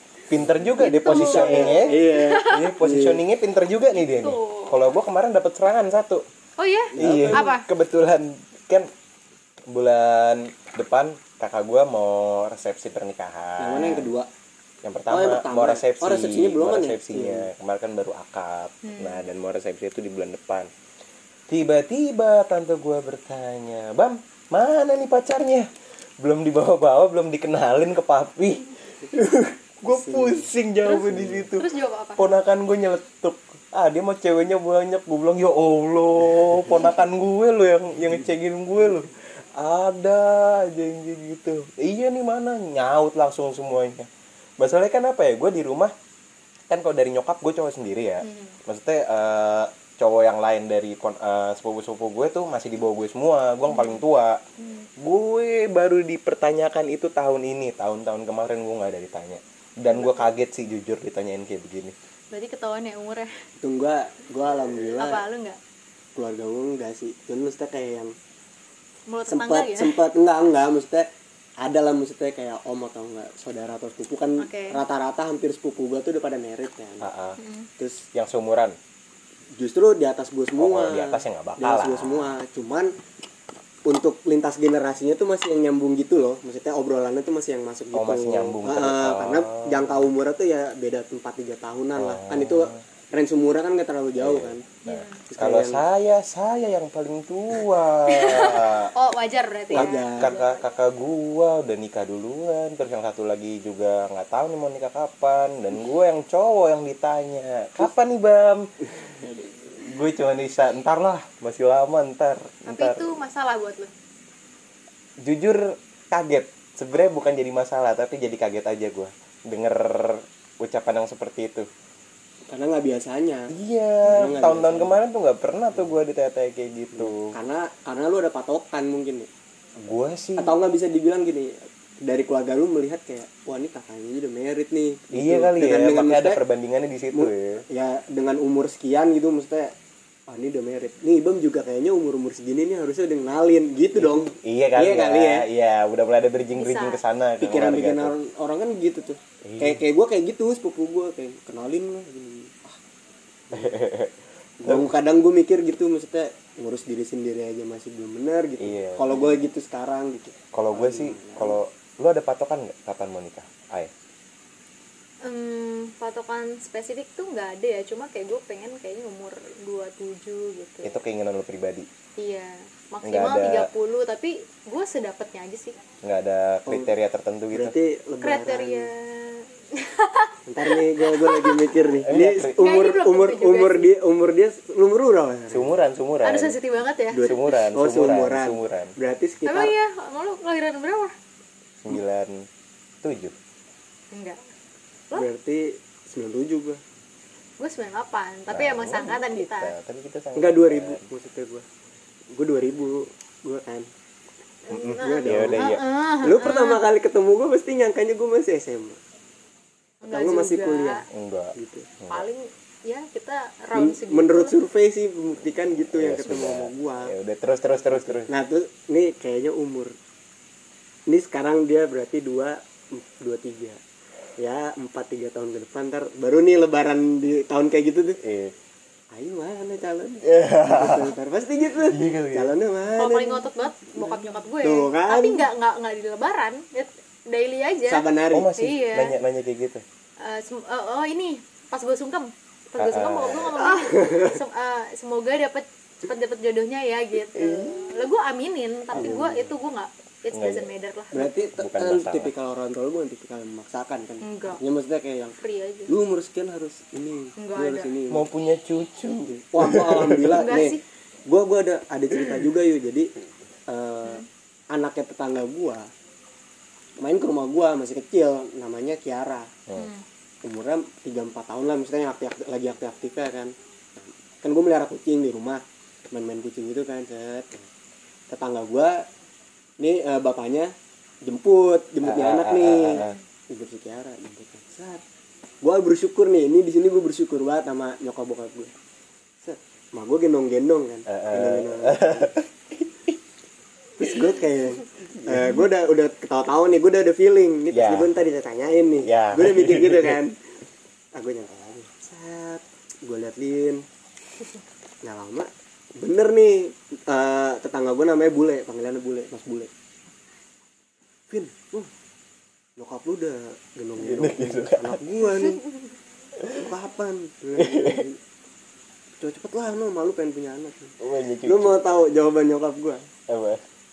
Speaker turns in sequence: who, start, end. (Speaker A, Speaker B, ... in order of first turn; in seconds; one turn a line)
Speaker A: 0.3-6.2
Speaker B: 0.8-2.7
Speaker C: 0.9-3.2
Speaker B: 4.0-4.8
Speaker B: 6.6-7.7
Speaker C: 7.0-7.5
Speaker A: 7.0-8.9
Speaker A: 9.7-14.1
Speaker C: 13.6-14.3
Speaker A: 14.8-20.7
Speaker C: 15.1-17.5
Speaker B: 18.8-19.2
Speaker A: 21.5-25.7
Speaker A: 26.2-45.9
Speaker C: 29.9-30.5
Speaker B: 30.8-32.3
Speaker A: 46.7-54.4
Speaker B: 48.2-48.6
Speaker B: 53.7-54.0
Speaker B: 54.6-54.9
Speaker A: 55.0-61.9
Speaker B: 59.9-60.3
Speaker B: 62.3-63.3
Speaker C: 63.6-65.2
Speaker B: 64.7-65.6
Speaker C: 66.2-68.1
Speaker B: 69.1-70.0
Speaker C: 69.3-71.1
Speaker C: 71.6-77.1
Speaker B: 74.4-74.8
Speaker A: 77.0-77.4
Speaker B: 77.4-77.7
Speaker C: 77.8-78.0
Speaker A: 78.1-78.8
Speaker C: 79.5-82.9
Speaker A: 80.6-82.3
Speaker C: 83.8-95.8
Speaker A: 87.9-90.1
Speaker A: 92.0-92.8
Speaker A: 94.2-98.9
Speaker B: 94.8-95.2
Speaker B: 98.1-100.6
Speaker A: 99.7-108.7
Speaker C: 99.7-100.3
Speaker A: 109.8-113.1
Speaker B: 112.7-113.9
Speaker A: 115.2-121.7
Speaker C: 122.5-123.5
Speaker A: 123.5-127.3
Speaker C: 124.0-125.0
Speaker C: 127.0-129.3
Speaker A: 129.8-130.5
Speaker C: 130.4-136.4
Speaker A: 135.1-137.6
Speaker C: 137.1-139.7
Speaker C: 140.3-145.5
Speaker A: 144.0-148.1
Speaker B: 146.5-147.0
Speaker C: 147.4-152.8
Speaker A: 149.4-149.8
Speaker A: 153.5-154.9
Speaker C: 154.6-161.6
Speaker A: 158.6-159.1
Speaker B: 159.1-159.4
Speaker A: 160.5-163.9
Speaker B: 165.2-170.9
Speaker A: 170.8-171.9
Speaker B: 172.2-175.8
Speaker A: 173.0-173.7
Speaker A: 176.0-177.7
Speaker C: 176.7-176.9
Speaker C: 177.5-178.9
Speaker B: 178.2-181.8
Speaker C: 180.5-185.7
Speaker A: 182.0-182.6
Speaker B: 182.6-183.9
Speaker A: 185.5-186.6
Speaker B: 186.2-187.3
Speaker C: 187.1-189.7
Speaker A: 187.2-188.9
Speaker B: 189.4-191.1
Speaker A: 191.8-192.5
Speaker A: 193.0-193.3
Speaker B: 194.1-194.4
Speaker C: 195.1-196.8
Speaker B: 197.6-199.7
Speaker A: 198.5-201.1
Speaker C: 200.3-201.6
Speaker C: 202.3-203.9
Speaker B: 204.7-206.8
Speaker A: 204.7-205.8
Speaker C: 204.8-205.7
Speaker C: 206.2-209.0
Speaker B: 210.0-211.0
Speaker C: 210.1-211.0
Speaker A: 211.1-212.2
Speaker C: 211.6-211.9
Speaker B: 212.1-214.6
Speaker C: 213.7-217.1
Speaker A: 215.9-218.3
Speaker C: 217.9-219.9
Speaker C: 221.1-223.8
Speaker C: 224.4-228.2
Speaker A: 228.2-228.5
Speaker C: 229.1-235.5
Speaker A: 230.2-231.1
Speaker A: 231.8-232.5
Speaker B: 232.9-239.1
Speaker C: 237.9-238.5
Speaker A: 238.3-239.8
Speaker B: 240.2-251.3
Speaker A: 242.8-243.6
Speaker C: 243.7-244.4
Speaker A: 247.3-247.9
Speaker A: 248.9-249.2
Speaker C: 248.9-249.5
Speaker A: 250.3-250.7
Speaker C: 251.1-258.2
Speaker A: 251.6-252.3
Speaker B: 254.2-254.6
Speaker B: 255.4-255.9
Speaker B: 257.4-257.9
Speaker A: 258.1-260.3
Speaker C: 259.3-263.1
Speaker B: 260.3-260.8
Speaker C: 263.7-265.9
Speaker C: 267.0-269.5
Speaker B: 269.7-270.0
Speaker C: 270.4-277.6
Speaker C: 278.3-279.0
Speaker C: 279.8-285.0
Speaker A: 282.0-283.1
Speaker C: 285.6-288.7
Speaker C: 289.4-292.3
Speaker A: 291.1-293.2
Speaker C: 294.0-300.4
Speaker A: 295.2-295.6
Speaker A: 297.7-298.1
Speaker A: 299.0-300.2
Speaker C: 301.1-303.8
Speaker C: 305.0-309.7
Speaker C: 311.3-311.9
Speaker C: 312.8-315.6
Speaker A: 314.0-315.0
Speaker A: 316.4-316.6
Speaker C: 316.5-318.2
Speaker A: 317.6-318.0
Speaker C: 319.2-323.1
Speaker A: 321.0-321.8
Speaker A: 323.3-323.6